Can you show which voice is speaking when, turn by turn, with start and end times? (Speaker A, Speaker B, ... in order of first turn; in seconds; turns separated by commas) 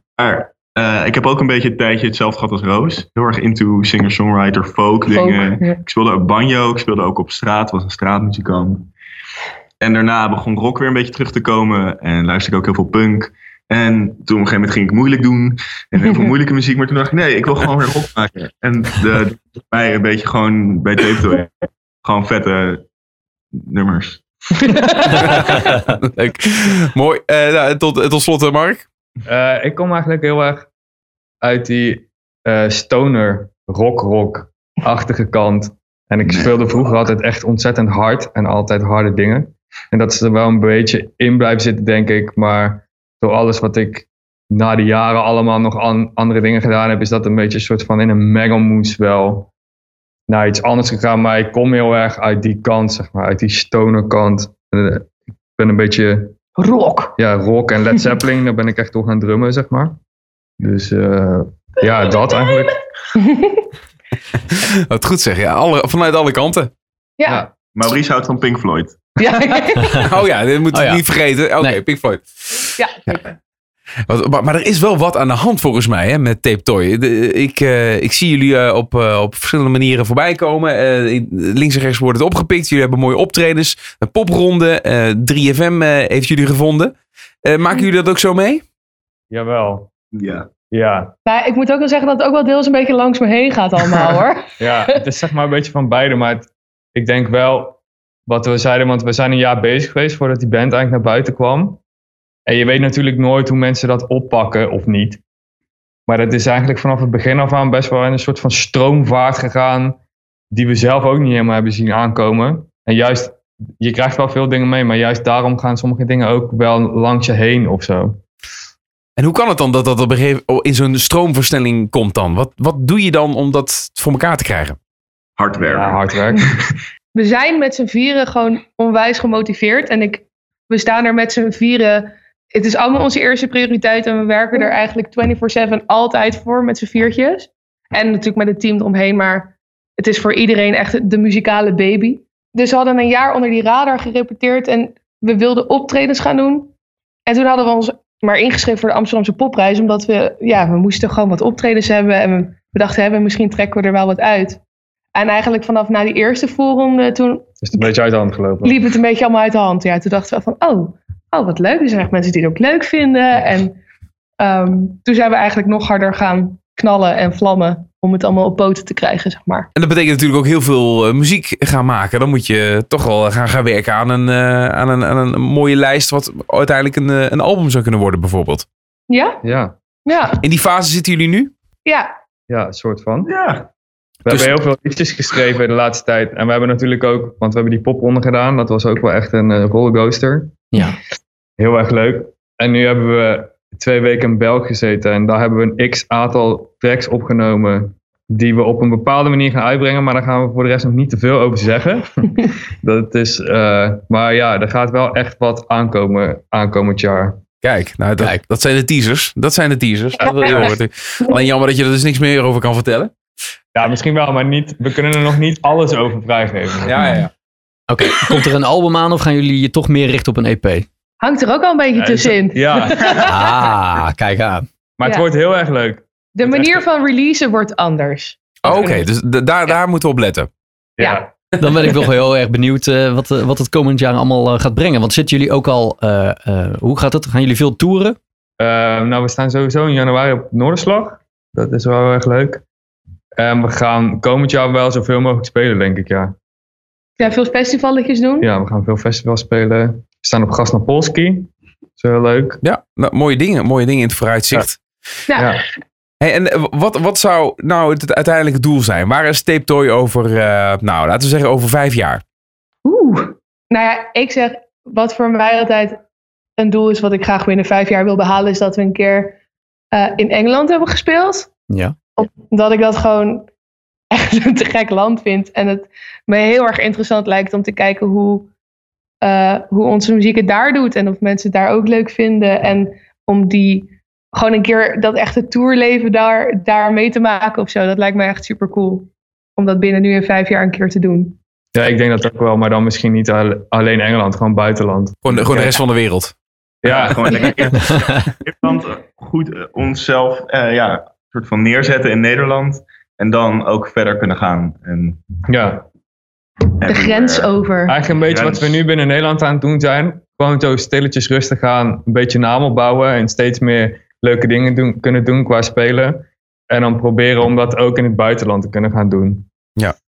Speaker A: 0.2-8.9, Speaker B: 5.1-5.8, Speaker A: 9.8-22.9, Speaker A: 23.6-24.2, Speaker C: 25.2-28.9, Speaker D: 29.3-30.7, Speaker D: 31.4-49.5, Speaker A: 36.3-36.7, Speaker D: 50.3-56.4, Speaker B: 56.6-57.2, Speaker D: 57.2-60.0, Speaker D: 60.6-62.8, Speaker B: 63.2-63.7, Speaker C: 64.5-66.7, Speaker B: 67.2-67.5, Speaker A: 67.7-69.1, Speaker B: 69.2-70.0, Speaker C: 70.0-73.3, Speaker E: 70.7-71.0, Speaker B: 72.8-73.2, Speaker C: 74.1-88.6, Speaker D: 89.3-89.9, Speaker A: 90.1-90.5, Speaker D: 90.6-91.1, Speaker B: 91.3-95.1, Speaker D: 94.6-101.8, Speaker D: 102.5-105.2, Speaker D: 106.1-110.0, Speaker D: 110.5-118.2, Speaker C: 119.2-124.8, Speaker A: 125.4-126.7, Speaker D: 125.6-126.4, Speaker B: 127.2-146.7, Speaker B: 147.3-154.6, Speaker B: 155.1-157.9, Speaker D: 157.6-158.8, Speaker B: 158.6-163.8, Speaker B: 164.4-169.7, Speaker C: 169.8-178.7, Speaker B: 179.1-179.4, Speaker D: 179.4-179.8, Speaker B: 180.1-180.4, Speaker C: 180.4-181.5, Speaker D: 182.5-183.3, Speaker A: 183.3-183.7, Speaker D: 184.2-190.6, Speaker D: 191.6-202.3, Speaker D: 202.8-207.4, Speaker C: 207.6-213.1, Speaker B: 210.2-211.4, Speaker D: 213.7-217.0, Speaker C: 216.8-217.3, Speaker E: 217.9-220.9, Speaker B: 221.2-223.5, Speaker D: 221.9-223.3, Speaker E: 223.2-224.7, Speaker D: 225.0-226.8, Speaker B: 225.0-225.3, Speaker B: 226.4-229.0, Speaker C: 228.7-230.5, Speaker D: 231.0-231.3, Speaker B: 231.0-231.2, Speaker E: 231.6-238.2, Speaker D: 238.6-242.6, Speaker D: 243.4-246.4, Speaker B: 247.2-248.5, Speaker D: 248.4-252.6, Speaker C: 252.6-254.8, Speaker B: 255.3-255.6, Speaker D: 255.3-255.6, Speaker C: 256.2-262.2, Speaker B: 262.9-266.0, Speaker B: 266.6-269.4, Speaker B: 269.9-271.5, Speaker E: 271.7-272.0, Speaker B: 272.2-273.5, Speaker B: 274.1-278.5, Speaker B: 279.2-291.4, Speaker D: 291.7-295.8, Speaker C: 295.2-296.3, Speaker D: 296.8-297.5, Speaker A: 296.8-305.2, Speaker E: 297.7-298.2, Speaker D: 305.5-305.9, Speaker A: 306.8-307.5, Speaker B: 306.9-308.0, Speaker D: 307.9-319.5, Speaker A: 308.1-308.8